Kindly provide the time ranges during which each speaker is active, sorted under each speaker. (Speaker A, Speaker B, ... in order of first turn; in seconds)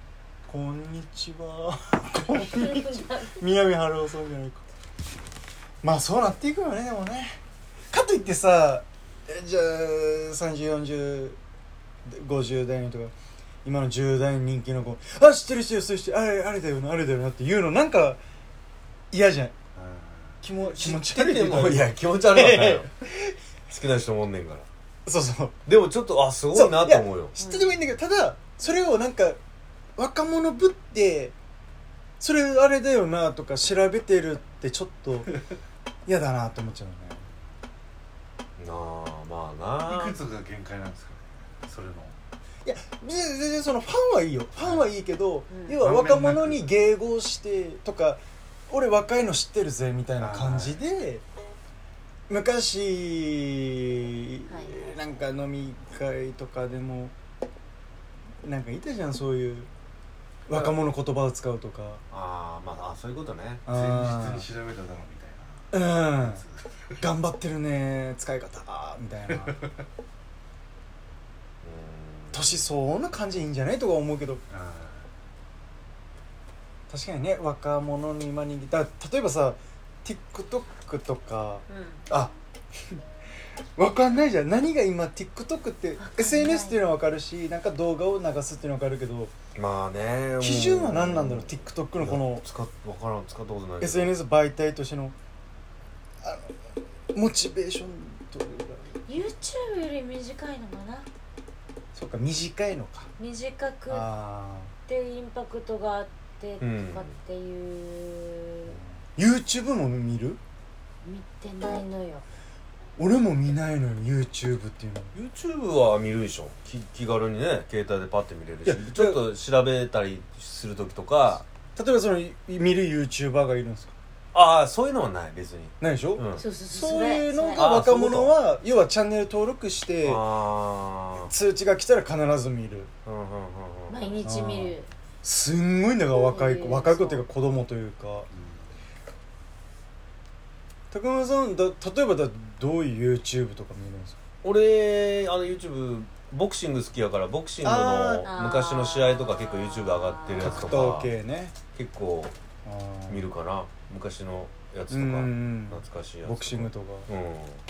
Speaker A: 0.5-4.6, 5.8-7.4, 7.9-11.4, 12.1-13.1, 13.6-18.2, 19.1-19.5, 20.4-23.3, 25.1-25.6, 26.5-29.4, 30.0-31.3, 32.2-35.3, 36.0-37.2, 42.6-51.2, 52.3-57.1, 58.4-59.7, 60.5-62.0, 63.6-64.5, 65.7-66.4, 67.0-69.6, 72.3-74.4, 76.9-82.3, 83.8-89.3, 90.4-92.5, 93.8-95.1, 96.2-96.5, 97.1-99.0, 101.9-103.1, 103.9-104.7, 109.2-110.4, 113.0-115.1, 118.6-119.2, 121.8-123.9, 125.8-130.2, 131.3-132.9, 134.2-138.3, 140.9-144.2, 147.6-148.3, 150.3-151.5, 152.6-153.3, 154.9-157.1
Speaker B: 2.4-3.4, 27.4-27.8, 45.5-45.8, 54.5-54.8, 81.7-82.0, 86.0-86.8, 99.0-101.1, 103.2-104.1, 104.8-108.8, 111.0-112.2, 126.4-127.7, 133.9-134.9, 136.1-137.2, 148.2-150.6
Speaker C: 19.7-20.4, 39.8-42.1, 45.8-46.7, 50.2-50.8, 63.7-67.0, 74.5-75.0
Speaker D: 20.7-22.9, 23.7-24.7, 25.6-27.3, 38.6-40.2, 62.1-63.6, 71.6-72.6, 89.5-94.1, 106.6-107.1, 115.1-121.4, 124.3-126.4, 127.5-128.4, 130.0-131.3, 133.1-134.1, 144.4-151.1, 151.7-152.3, 153.1-157.6